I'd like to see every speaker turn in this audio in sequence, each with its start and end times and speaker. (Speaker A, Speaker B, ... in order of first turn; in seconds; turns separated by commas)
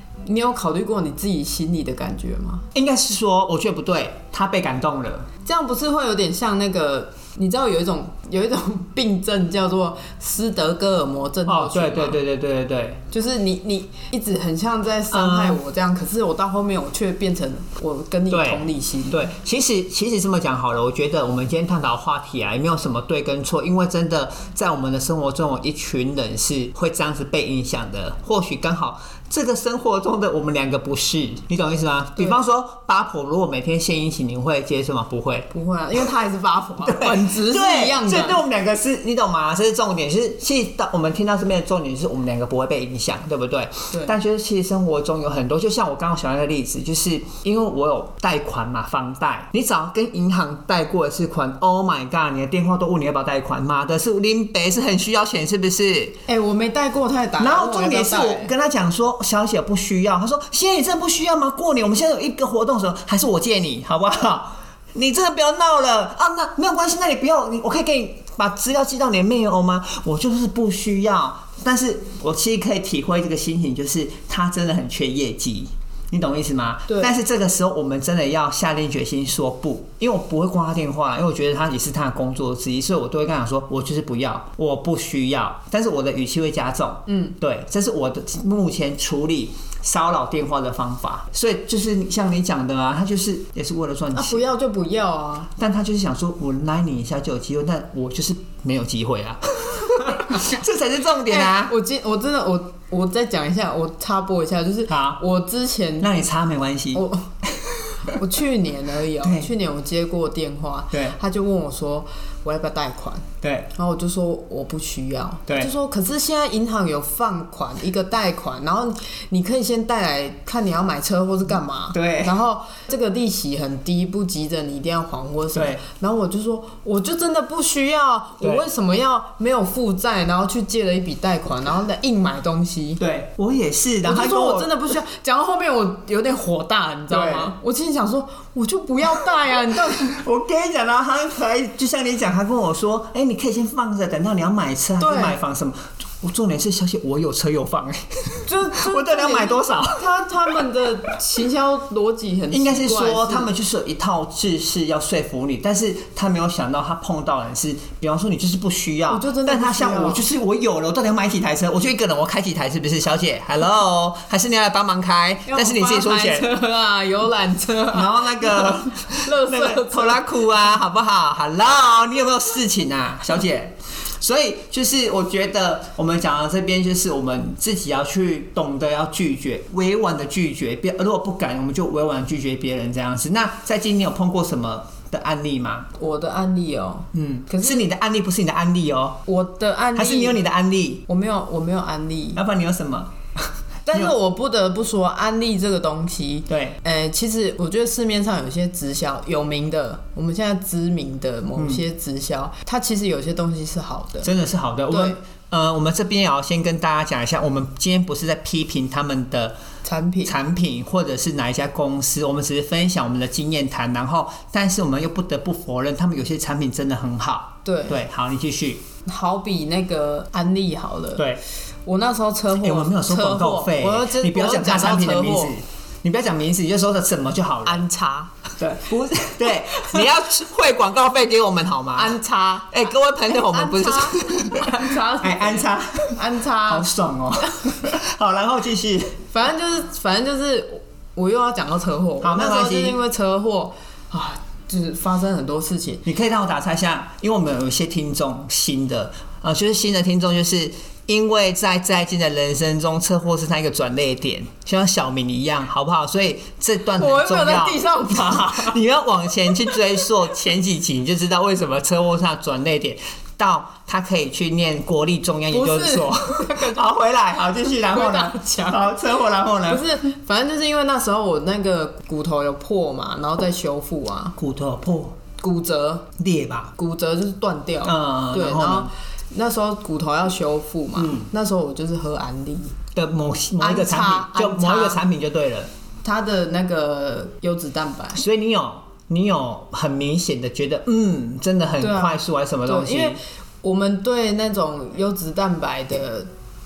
Speaker A: 0.2-2.6, Speaker B: 2.7-5.3, Speaker A: 5.5-12.2, Speaker B: 11.5-13.0, Speaker A: 13.1-19.2, Speaker B: 15.1-15.6, Speaker B: 18.3-35.5, Speaker A: 35.5-38.4, Speaker B: 36.8-56.2, Speaker A: 43.9-44.2, Speaker A: 56.3-58.5, Speaker B: 57.4-94.4, Speaker A: 76.9-77.1, Speaker A: 87.1-87.3, Speaker A: 94.1-95.5, Speaker B: 95.6-101.7, Speaker A: 101.3-106.1, Speaker B: 104.9-105.2, Speaker B: 106.0-108.2, Speaker A: 106.9-107.3, Speaker A: 108.0-133.0, Speaker B: 109.2-109.5, Speaker B: 110.9-111.2, Speaker B: 113.4-113.7, Speaker B: 121.9-122.4, Speaker B: 125.5-125.8, Speaker B: 128.4-128.7, Speaker B: 133.0-134.8, Speaker A: 134.1-140.2, Speaker B: 137.1-137.5, Speaker B: 140.0-150.1, Speaker A: 145.0-145.4, Speaker A: 148.5-153.5, Speaker B: 152.5-166.5, Speaker A: 159.1-160.3, Speaker A: 165.5-170.3, Speaker B: 167.9-185.9, Speaker A: 186.0-187.9, Speaker B: 187.1-189.2, Speaker A: 189.3-190.4, Speaker B: 189.9-191.1, Speaker A: 191.1-192.4, Speaker B: 192.3-194.1, Speaker A: 193.9-204.3, Speaker B: 196.5-196.8, Speaker B: 201.6-201.8, Speaker B: 204.2-209.6, Speaker A: 204.9-205.2, Speaker A: 209.8-210.4, Speaker B: 210.2-218.8, Speaker A: 217.7-218.0, Speaker A: 219.1-221.3, Speaker B: 221.2-221.4, Speaker A: 221.8-225.6, Speaker B: 222.6-227.8, Speaker A: 227.7-228.3, Speaker B: 228.6-232.2, Speaker A: 229.8-230.0, Speaker A: 231.9-236.9, Speaker B: 232.7-239.2, Speaker A: 237.4-237.7, Speaker A: 239.3-246.0, Speaker B: 242.2-243.0, Speaker B: 246.1-269.9, Speaker A: 257.0-258.8, Speaker A: 265.5-268.9, Speaker A: 269.7-274.4, Speaker B: 274.4-275.2, Speaker A: 275.4-276.1, Speaker B: 276.2-276.7, Speaker A: 276.8-282.8, Speaker B: 277.8-278.9, Speaker B: 281.0-281.3, Speaker B: 282.9-285.7, Speaker A: 283.6-285.0, Speaker A: 286.0-288.2, Speaker B: 288.1-293.2, Speaker A: 291.8-296.3